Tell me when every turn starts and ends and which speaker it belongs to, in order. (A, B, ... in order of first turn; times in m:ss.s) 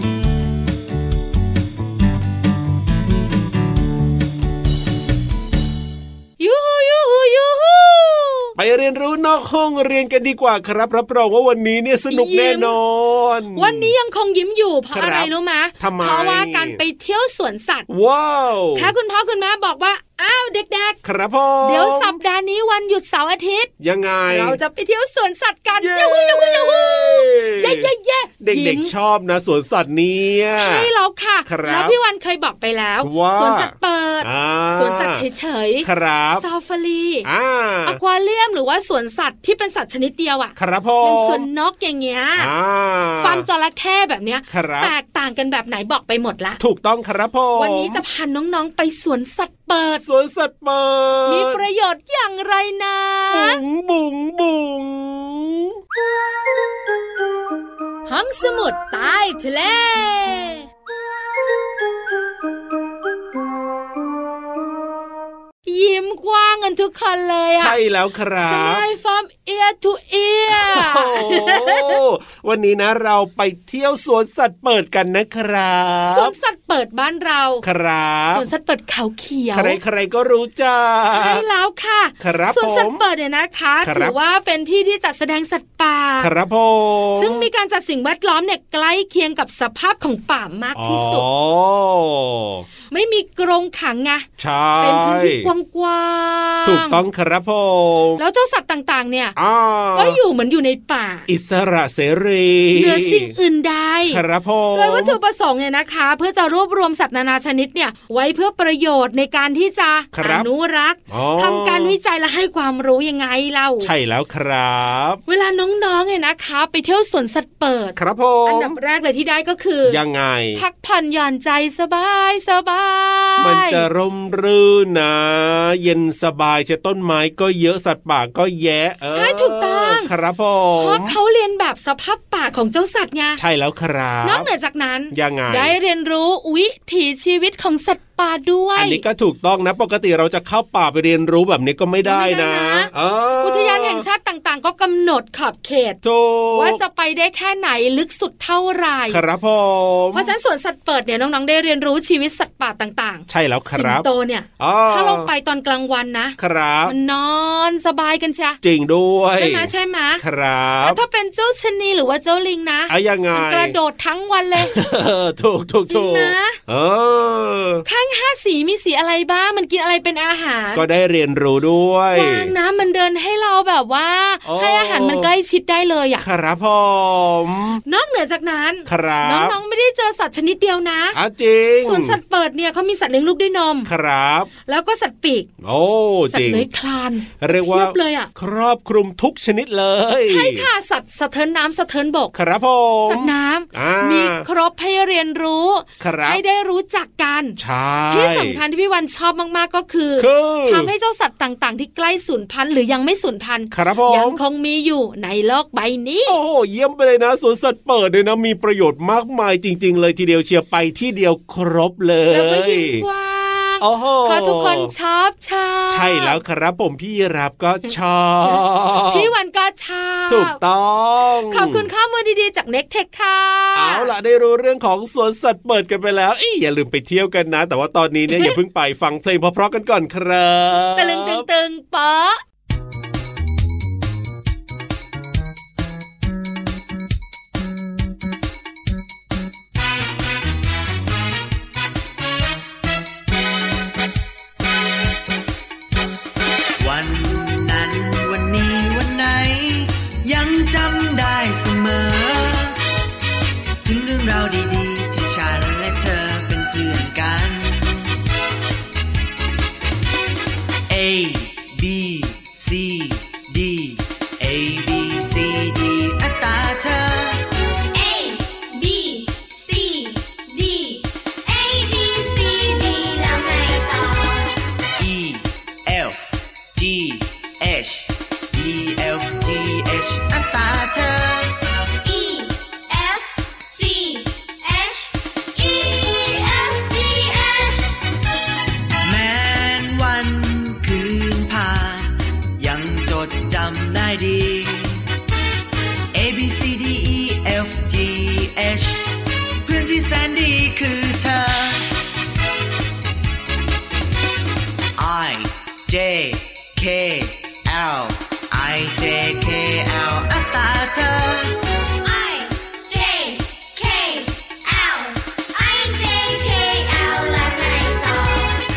0:06.4-0:08.5 A
0:08.6-0:13.9 B
0:12.1-0:12.8 A
0:13.6-0:17.9 A
0:14.9-0:16.8 B
0:17.9-0:18.9 B
0:18.8-0:21.0 A
0:21.0-0:22.2 B
0:21.6-0:23.7 A
0:23.8-0:24.6 B
0:24.3-0:28.9 A
0:25.8-0:27.9 B
0:28.4-0:30.9 B
0:30.5-0:37.3 A
0:31.5-0:32.0 B
0:33.0-0:35.2 B
0:35.8-0:36.4 B
0:37.2-0:38.0 B
0:37.8-0:42.5 A
0:40.6-0:41.4 B
0:42.4-0:43.4 B
0:43.2-0:46.6 A
0:44.5-0:44.9 B
0:46.6-0:48.0 B
0:47.6-0:50.0 A
0:50.0-0:51.6 B
0:51.3-0:53.6 A
0:53.3-0:55.7 B
0:58.1-1:00.6 A
1:05.7-1:07.8 A
1:07.6-1:08.9 B
1:08.4-1:12.0 A
1:10.5-1:16.3 B
1:16.1-1:17.6 A
1:17.6-1:18.5 B
1:18.3-1:19.8 A
1:19.5-1:21.4 B
1:21.1-1:26.3 A
1:22.2-1:23.0 B
1:23.8-1:24.2 B
1:26.2-1:27.5 B
1:27.2-1:31.3 A
1:30.8-1:32.7 B
1:32.9-1:34.3 A
1:34.4-1:35.5 B
1:34.8-1:37.0 A
1:36.6-1:38.2 B
1:38.2-1:39.4 A
1:39.4-1:40.2 B
1:39.9-1:41.3 A
1:41.3-1:43.3 B
1:42.7-1:44.2 A
1:44.1-1:45.2 B
1:44.7-1:53.9 A
1:50.1-1:50.5 B
1:51.1-1:52.0 B
1:53.8-1:55.2 B
1:55.3-2:00.0 A
1:58.0-1:58.8 B
1:59.9-2:00.6 B
2:00.6-2:03.9 A
2:03.4-2:11.2 B
2:09.1-2:10.1 A
2:10.8-2:13.4 A
2:13.4-2:14.5 B
2:14.2-2:19.0 A
2:15.1-2:15.8 B
2:18.8-2:24.0 B
2:22.0-2:26.0 A
2:26.0-2:26.8 B
2:26.5-2:29.2 A
2:29.1-2:30.3 B
2:30.1-2:38.6 A
2:33.3-2:34.1 B
2:34.6-2:35.3 B
2:36.4-2:36.9 B
2:38.6-2:41.0 B
2:39.3-2:40.2 A
2:40.8-2:44.8 A
2:42.9-2:43.8 B
2:44.6-2:47.8 B
2:45.9-2:46.6 A
2:47.8-2:50.9 A
2:50.8-2:52.5 B
2:52.1-2:56.2 A
2:54.4-2:55.3 B
2:56.2-2:57.8 B
2:57.9-3:01.2 A
2:58.9-2:59.6 B
3:01.1-3:02.2 B
3:01.8-3:03.9 A
3:03.8-3:04.5 B
3:04.7-3:05.5 A
3:05.6-3:06.7 B
3:06.3-3:08.3 A
3:07.4-3:10.7 B
3:10.3-3:12.3 A
3:12.3-3:14.4 B
3:13.0-3:17.6 A
3:16.0-3:16.4 B
3:17.6-3:18.6 B
3:18.1-3:26.4 A
3:20.2-3:20.9 B
3:23.7-3:24.4 B
3:26.3-3:33.0 B
3:32.3-3:36.4 A
3:33.8-3:34.9 B
3:35.9-3:39.3 B
3:38.4-3:40.6 A
3:40.3-3:41.9 B
3:41.5-3:44.1 A
3:43.8-3:51.4 B
3:48.3-3:48.6 A
3:51.0-3:52.4 A
4:06.8-4:12.8 C
4:13.8-4:18.0 C
4:20.9-4:27.4 C
4:27.9-4:34.5 D
4:35.0-4:41.5 C
4:42.1-4:45.0 D
4:45.6-4:47.9 D
4:49.0-4:55.0 C
4:56.1-4:59.1 C
4:59.6-5:01.9 C
5:05.0-5:11.6 C
5:12.1-5:18.6 D